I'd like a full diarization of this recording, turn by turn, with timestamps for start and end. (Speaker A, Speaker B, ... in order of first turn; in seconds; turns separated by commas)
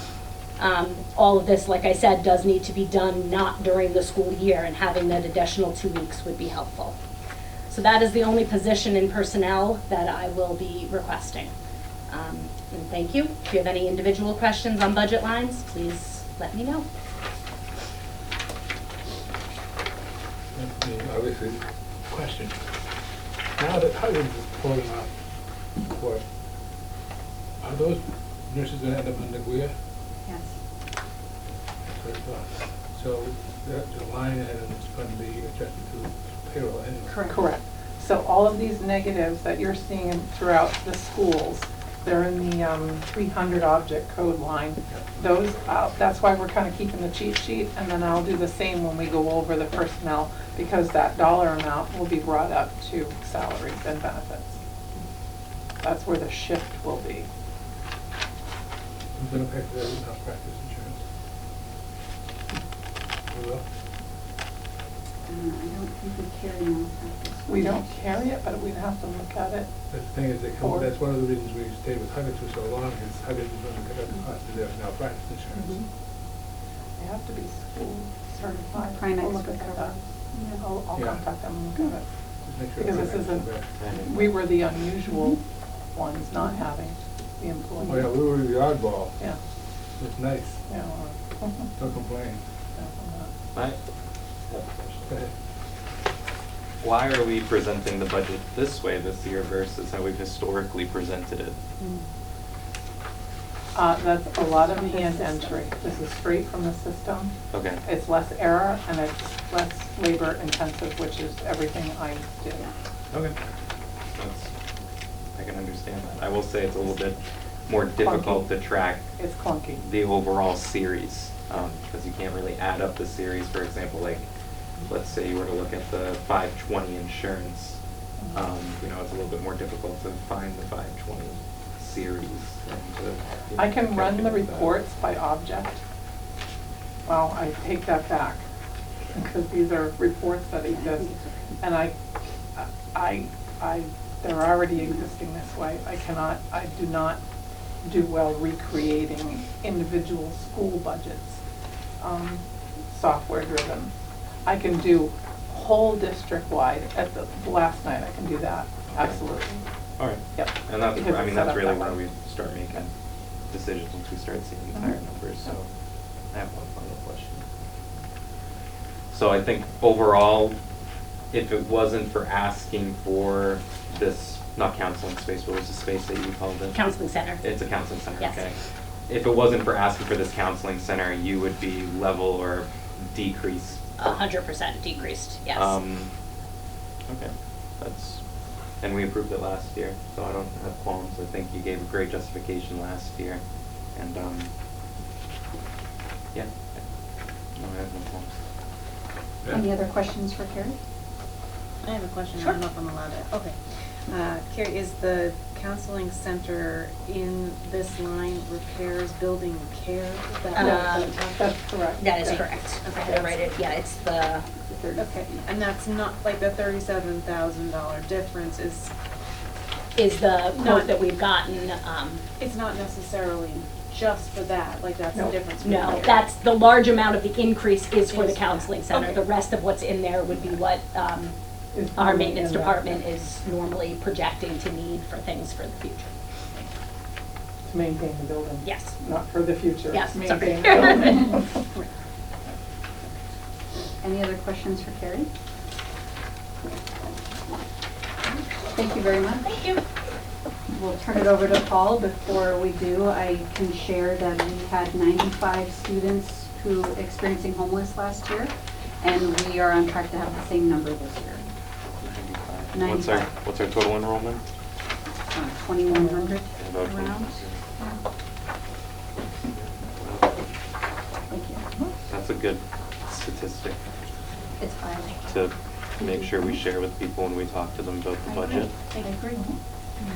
Speaker A: 0.6-7.0, Speaker A: 7.7-11.5, Speaker A: 12.1-16.9, Speaker B: 20.5-22.5, Speaker B: 23.6-25.1, Speaker B: 25.8-26.2, Speaker B: 27.6-29.7, Speaker C: 30.2-30.5, Speaker B: 31.9-37.2, Speaker C: 37.1-37.5, Speaker D: 37.3-54.6, Speaker D: 55.8-57.3, Speaker B: 59.1-61.0, Speaker B: 63.3-63.6, Speaker C: 65.3-68.1, Speaker D: 67.5-69.7, Speaker B: 69.9-75.8, Speaker D: 70.6-70.9, Speaker D: 77.0-80.0, Speaker C: 78.7-80.6, Speaker D: 80.6-82.0, Speaker B: 80.9-81.2, Speaker B: 82.5-83.7, Speaker D: 82.8-85.4, Speaker E: 83.6-84.4, Speaker D: 85.9-88.1, Speaker B: 87.8-89.1, Speaker B: 90.0-90.6, Speaker D: 90.7-91.7, Speaker B: 91.8-92.4, Speaker D: 92.8-93.3, Speaker E: 94.5-95.1, Speaker E: 96.8-101.6, Speaker D: 103.7-107.3, Speaker C: 104.5-105.8, Speaker E: 107.5-107.8, Speaker D: 107.8-112.7, Speaker E: 114.2-114.5, Speaker E: 115.3-119.1, Speaker D: 118.0-118.5, Speaker D: 119.2-119.8, Speaker E: 119.8-124.3, Speaker E: 124.9-127.8, Speaker E: 128.3-134.8, Speaker D: 133.6-135.8, Speaker D: 137.1-138.4, Speaker D: 139.1-141.9, Speaker C: 140.7-141.6, Speaker D: 142.6-147.2, Speaker D: 147.8-151.4, Speaker D: 152.0-153.9, Speaker D: 154.4-159.6, Speaker E: 158.9-159.2, Speaker E: 160.0-162.9, Speaker D: 160.3-162.0, Speaker E: 163.5-165.7, Speaker E: 166.3-167.4, Speaker E: 169.1-170.6, Speaker E: 171.3-176.8, Speaker A: 176.7-177.4, Speaker E: 177.4-178.6, Speaker E: 179.1-183.8, Speaker A: 184.0-185.8, Speaker E: 185.5-186.1, Speaker E: 187.1-188.2, Speaker E: 188.8-193.4, Speaker E: 193.9-194.5, Speaker E: 196.3-196.8, Speaker E: 197.6-198.3, Speaker C: 199.5-200.8, Speaker F: 201.8-203.5, Speaker F: 204.1-211.2, Speaker D: 210.5-212.4, Speaker A: 210.5-211.1, Speaker A: 212.0-214.4, Speaker F: 212.8-213.5, Speaker C: 214.7-215.0, Speaker F: 215.0-218.9, Speaker A: 219.9-222.2, Speaker F: 220.6-220.9, Speaker F: 222.4-226.2, Speaker D: 225.0-225.9, Speaker A: 225.6-231.3, Speaker F: 228.1-229.2, Speaker D: 231.7-232.9, Speaker A: 231.9-236.1, Speaker D: 237.7-241.5, Speaker A: 238.6-239.0, Speaker A: 239.9-241.1, Speaker C: 244.0-245.3, Speaker C: 248.7-249.5, Speaker A: 249.4-249.8, Speaker C: 250.7-261.5, Speaker E: 262.0-264.4, Speaker C: 262.7-263.3, Speaker C: 265.3-268.0, Speaker E: 266.6-267.6, Speaker E: 269.4-270.3, Speaker C: 271.3-271.6, Speaker E: 272.1-273.8, Speaker C: 274.6-275.2, Speaker E: 275.2-278.7, Speaker C: 278.3-279.6